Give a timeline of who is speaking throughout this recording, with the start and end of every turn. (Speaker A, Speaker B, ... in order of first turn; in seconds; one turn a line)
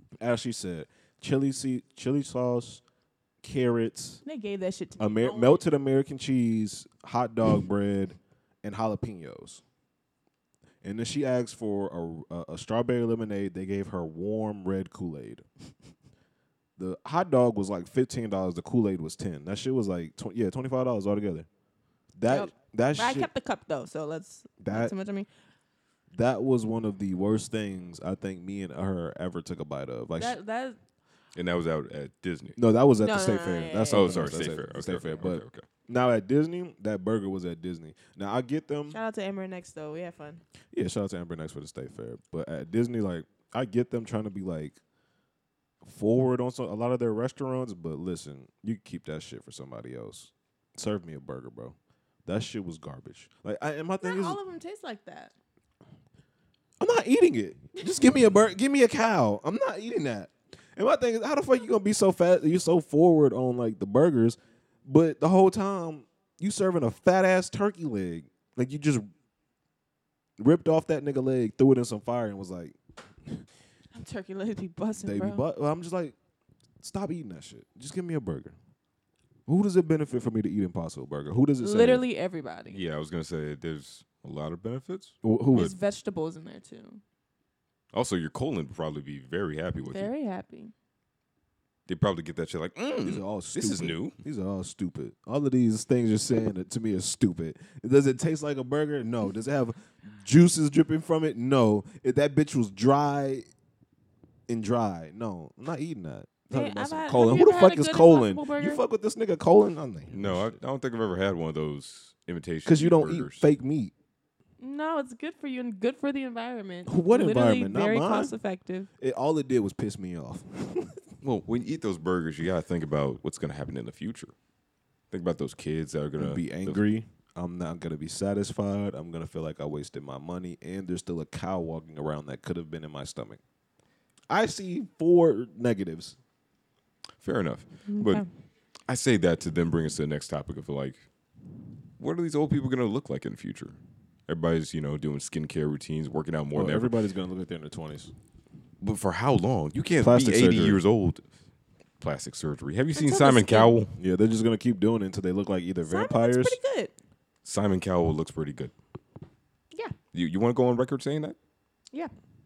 Speaker A: 0.2-2.8
Speaker A: 3.4-4.2
Speaker B: 4.2-5.6
Speaker A: 5.0-9.6
Speaker A: 10.8-15.4
Speaker A: 16.8-21.5
Speaker A: 22.1-23.3
Speaker B: 22.3-25.3
Speaker A: 24.6-24.9
Speaker A: 26.1-30.4
Speaker B: 30.2-30.8
Speaker C: 31.3-32.6
Speaker A: 32.6-39.0
Speaker B: 33.0-34.1
Speaker C: 33.9-35.6
Speaker B: 38.9-40.4
Speaker A: 40.7-44.8
Speaker A: 45.8-51.7
Speaker A: 52.2-54.4
Speaker B: 54.0-55.3
Speaker A: 56.8-69.1
Speaker A: 70.4-73.5
Speaker B: 73.9-75.4
Speaker A: 75.0-76.1
Speaker A: 76.8-78.5
Speaker A: 79.5-82.0
Speaker B: 81.6-82.8
Speaker C: 82.7-85.7
Speaker A: 85.2-85.7
Speaker B: 85.5-87.0
Speaker C: 87.9-90.1
Speaker B: 89.8-90.7
Speaker C: 91.9-94.1
Speaker A: 93.0-103.5
Speaker A: 104.5-110.5
Speaker B: 106.5-108.8
Speaker C: 110.1-113.5
Speaker A: 112.6-113.9
Speaker B: 114.6-118.9
Speaker A: 116.9-118.3
Speaker A: 119.0-121.0
Speaker C: 121.2-124.3
Speaker C: 125.1-126.8
Speaker A: 126.2-133.4
Speaker A: 134.3-136.2
Speaker C: 137.2-138.2
Speaker B: 137.9-138.3
Speaker C: 138.9-141.0
Speaker C: 142.0-143.8
Speaker C: 144.3-146.9
Speaker A: 146.5-148.1
Speaker C: 148.8-151.2
Speaker A: 150.0-150.8
Speaker C: 152.0-153.9
Speaker B: 152.9-153.8
Speaker A: 153.9-156.6
Speaker B: 155.8-156.9
Speaker C: 157.4-158.7
Speaker C: 160.1-161.3